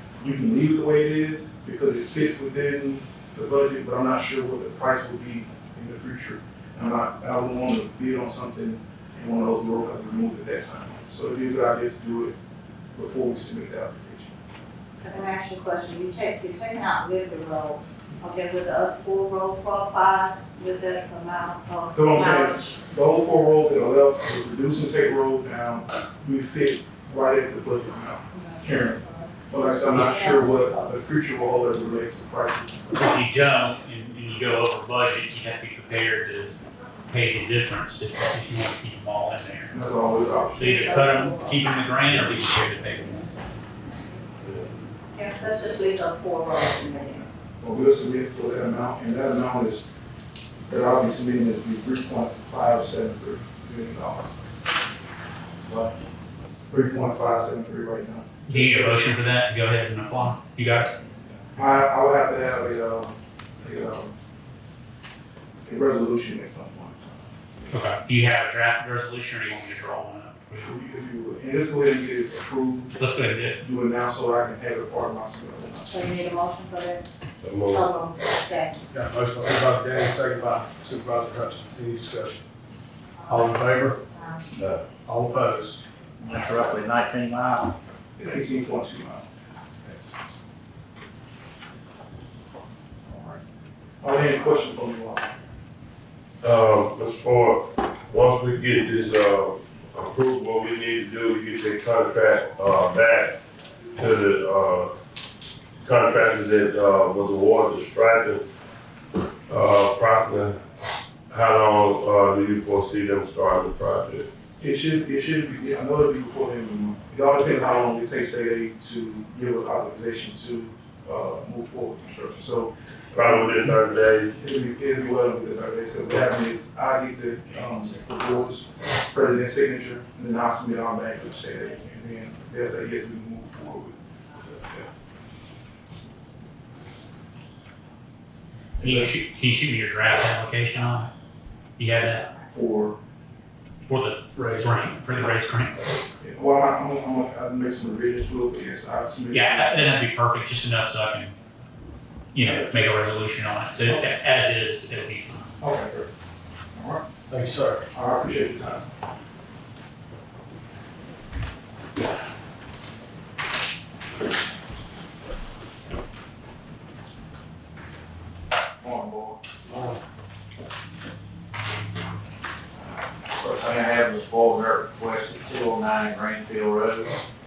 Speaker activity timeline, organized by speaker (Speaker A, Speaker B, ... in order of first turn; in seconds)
Speaker A: 0.2-12.4, 12.9-14.3, 21.9-33.0, 39.7-40.9, 47.6-49.9, 50.7-54.4, 56.7-59.2, 61.5-64.1, 65.6-67.2, 70.6-73.0, 73.6-76.0, 86.3-86.6, 88.2-89.3, 94.0-95.3, 114.6-123.8, 124.4-134.9, 138.8-139.1, 142.5-143.0, 146.2-150.0, 152.4-152.8, 155.6-156.1, 156.7-157.0, 157.9-158.9
Speaker B: 15.0-22.8, 28.3-29.3, 29.9-30.9, 40.5-41.7, 45.1-47.3, 75.8-77.0, 77.6-78.8
Speaker C: 32.9-36.6, 37.1-39.8, 40.5-43.4, 58.5-60.9, 67.7-70.7, 72.9-73.6, 138.8-141.1, 141.8-142.3, 143.8-145.8, 149.3-151.3, 152.3-155.5
Speaker D: 44.4-44.7, 77.4-77.9, 96.4-103.4, 104.0-104.9, 105.8-108.4, 109.5-110.6, 111.3-114.3, 123.1-124.4
Speaker E: 55.7-55.9, 86.2-87.7, 168.8-169.4, 173.3-177.1
Speaker F: 78.9-82.4, 83.2-84.0, 85.0-85.8, 127.5-128.1, 144.3-144.7, 157.3-157.8